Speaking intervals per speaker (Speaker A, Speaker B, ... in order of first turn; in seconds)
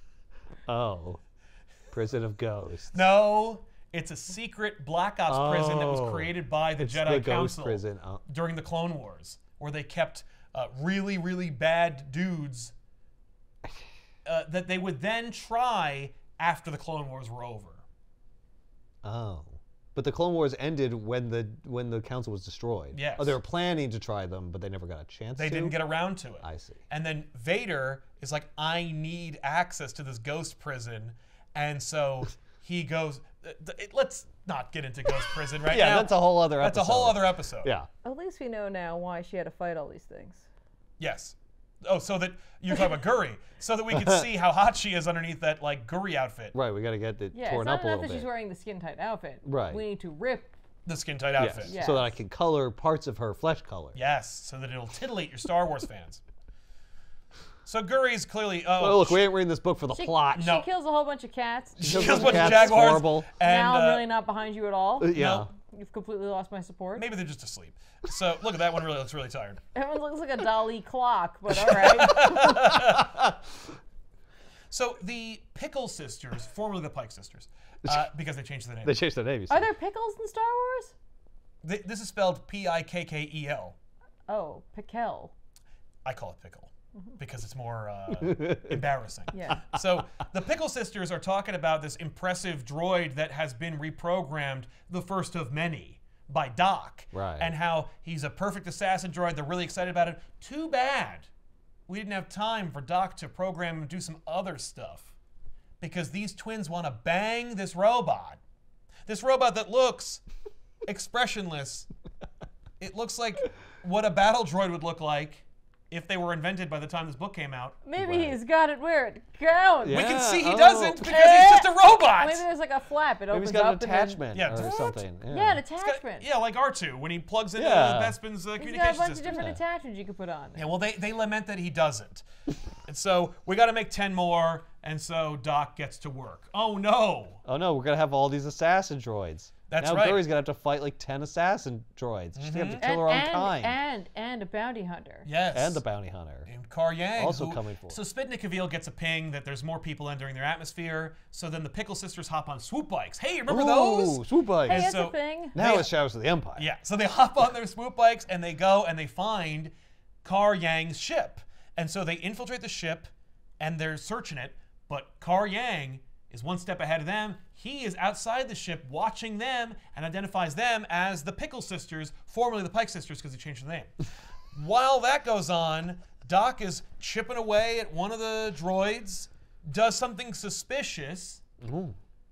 Speaker A: 0.7-1.2, 1.9-3.1, 5.3-8.2, 19.0-25.7, 26.4-26.8, 35.7-37.9, 43.9-44.2, 46.5-48.3, 49.4-49.8, 51.4-54.0, 58.8-60.5, 61.8-63.3, 65.0-65.5, 72.0-73.4, 78.8-79.7, 88.2-88.8, 97.1-97.5, 118.0-118.4, 119.8-121.1, 123.3-125.6, 127.6-128.2, 137.4-143.8, 145.5-146.5, 147.2-148.0, 153.5-154.9, 155.5-156.7, 181.6-181.9
Speaker B: 2.9-12.7, 14.2-17.8, 22.9-23.4, 25.4-37.7, 41.0-46.5, 50.9-51.7, 53.9-56.2, 57.6-59.2, 60.4-60.6, 61.8-64.0, 65.1-65.5, 67.0-69.6, 71.7-73.1, 74.7-79.0, 81.6-83.8, 86.0-101.3, 101.9-105.1, 105.8-108.4, 109.0-110.2, 110.8-111.9, 112.8-117.8, 119.9-122.4, 124.3-124.9, 125.8-129.4, 130.6-132.2, 132.9-137.4, 139.7-140.2, 142.3-142.8, 145.2-145.8, 146.5-155.9, 156.6-159.7, 160.2-173.9, 174.5-181.4
Speaker C: 38.0-40.5, 47.3-50.5, 51.6-52.1, 59.9-67.1, 69.7-72.7, 79.5-80.9, 84.3-85.3, 89.3-89.6, 117.8-120.1, 121.0-126.2, 128.6-130.7, 142.8-145.3, 154.7-155.6